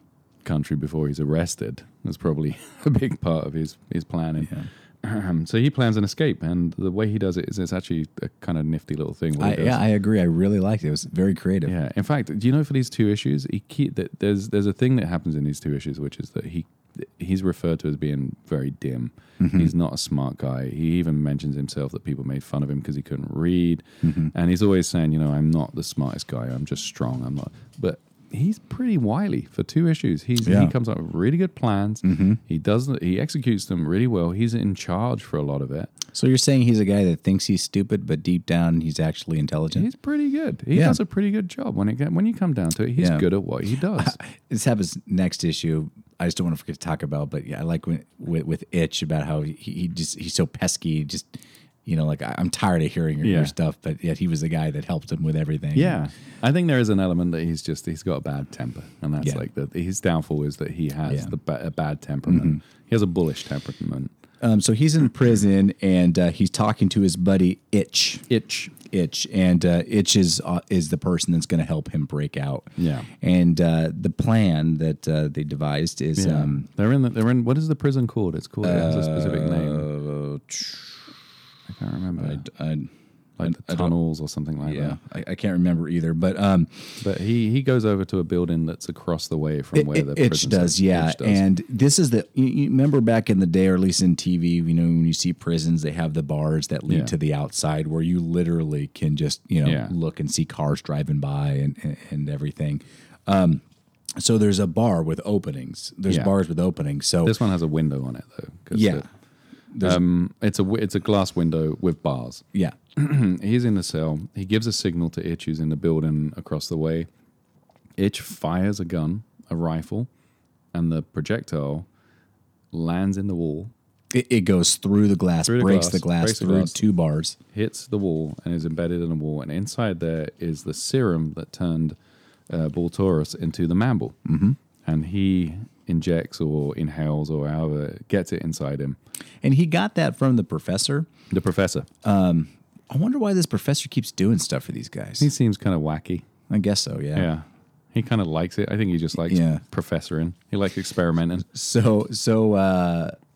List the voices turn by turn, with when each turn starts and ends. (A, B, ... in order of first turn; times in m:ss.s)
0:00.4-0:09.8 A
0:09.4-0:11.7 B
0:11.6-0:35.9 A
0:19.4-0:19.7 B
0:24.0-0:24.3 B
0:30.4-0:30.7 B
0:32.0-0:32.4 B
0:36.1-0:39.8 B
0:39.7-0:44.2 A
0:40.7-0:41.0 B
0:43.0-0:43.2 B
0:44.0-0:56.0 B
0:53.2-0:53.5 A
0:55.8-1:04.1 A
1:01.1-1:01.3 B
1:02.3-1:02.6 B
1:04.4-1:16.7 B
1:08.3-1:08.8 A
1:12.8-1:13.1 A
1:16.2-1:19.9 A
1:18.6-1:21.0 B
1:21.7-1:22.5 A
1:22.2-1:22.9 B
1:23.4-1:25.0 A
1:23.4-1:23.9 B
1:24.6-1:27.0 B
1:27.0-1:31.5 A
1:29.7-1:43.6 B
1:36.9-1:37.1 A
1:39.6-1:39.9 A
1:44.2-1:47.4 B
1:47.2-1:49.0 A
1:48.7-1:49.0 B
1:49.7-1:50.0 B
1:49.8-1:52.4 A
1:53.0-1:57.1 A
1:58.0-2:00.1 A
2:00.7-2:01.9 A
2:02.7-2:03.7 A
2:04.1-2:07.4 B
2:05.4-2:06.8 A
2:07.5-2:12.0 A
2:12.5-2:14.2 A
2:14.2-2:14.6 B
2:14.8-2:19.0 A
2:19.4-2:21.1 B
2:21.3-2:21.9 A
2:22.0-2:25.3 B
2:25.2-2:26.3 A
2:26.5-2:27.3 B
2:27.1-2:31.5 A
2:29.3-2:29.6 B
2:31.5-2:33.1 B